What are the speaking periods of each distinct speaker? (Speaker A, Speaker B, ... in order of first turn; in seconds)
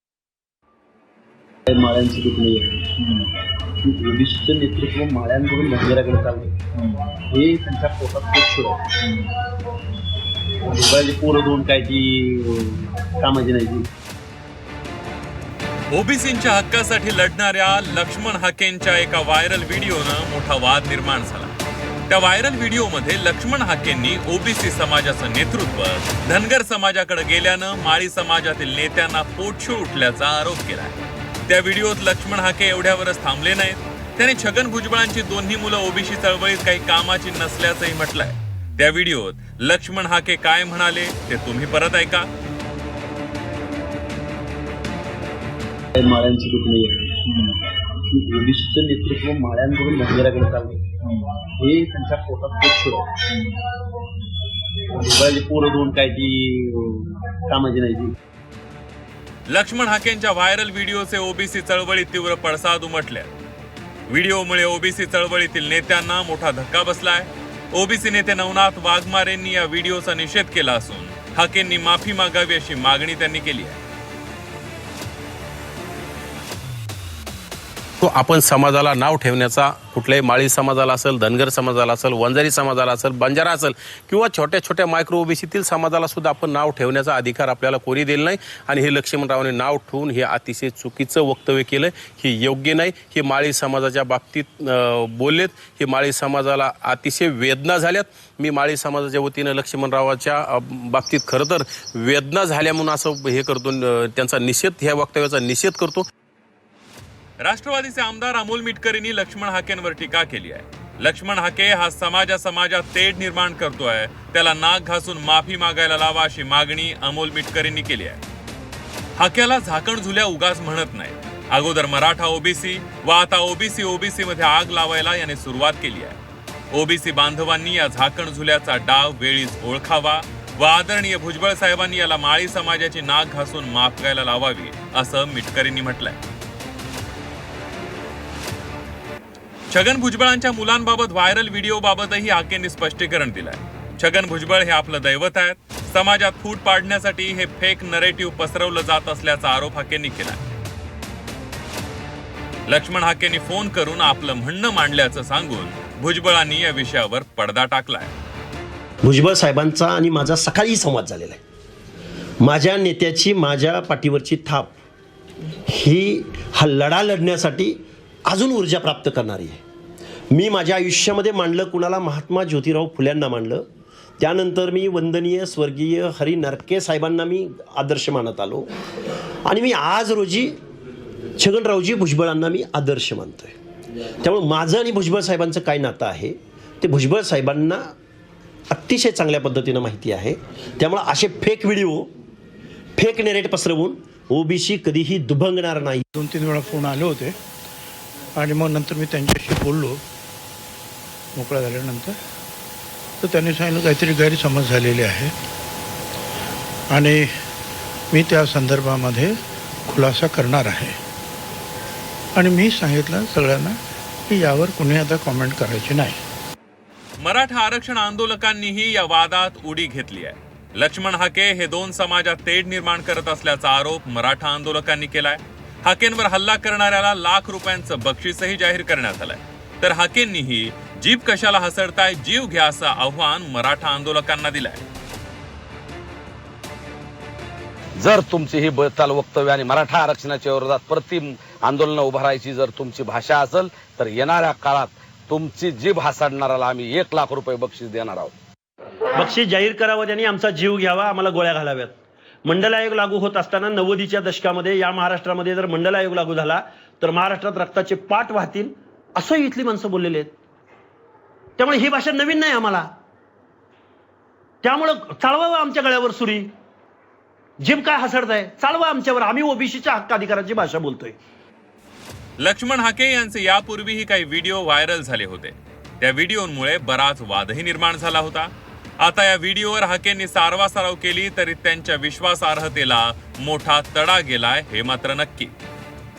Speaker A: 1.7-3.1, 3.8-6.6, 7.3-9.2, 10.7-13.8, 46.0-47.5, 48.1-51.0, 51.5-53.4, 54.9-58.1
Speaker B: 15.9-21.5, 22.1-42.3, 59.5-63.3, 64.1-73.8, 107.4-118.2, 119.2-126.2, 126.7-136.2, 139.7-150.4, 152.7-158.1, 217.2-234.8, 272.4-285.5
Speaker C: 78.0-106.1
Speaker D: 159.0-161.4, 162.4-164.7, 165.7-169.6, 170.3-173.7, 174.2-178.7, 179.4-180.6, 181.4-183.5, 184.2-187.9, 188.7-192.1, 193.0-196.0, 249.1-251.9, 252.4-260.3, 261.6-262.9, 264.6-266.5, 267.6-271.2
Speaker E: 196.2-197.3, 198.4-200.0, 201.3-202.2, 203.2-205.3, 206.9-207.3, 208.1-209.4, 209.9-210.9, 212.3-213.8, 214.3-216.2
Speaker F: 238.0-248.3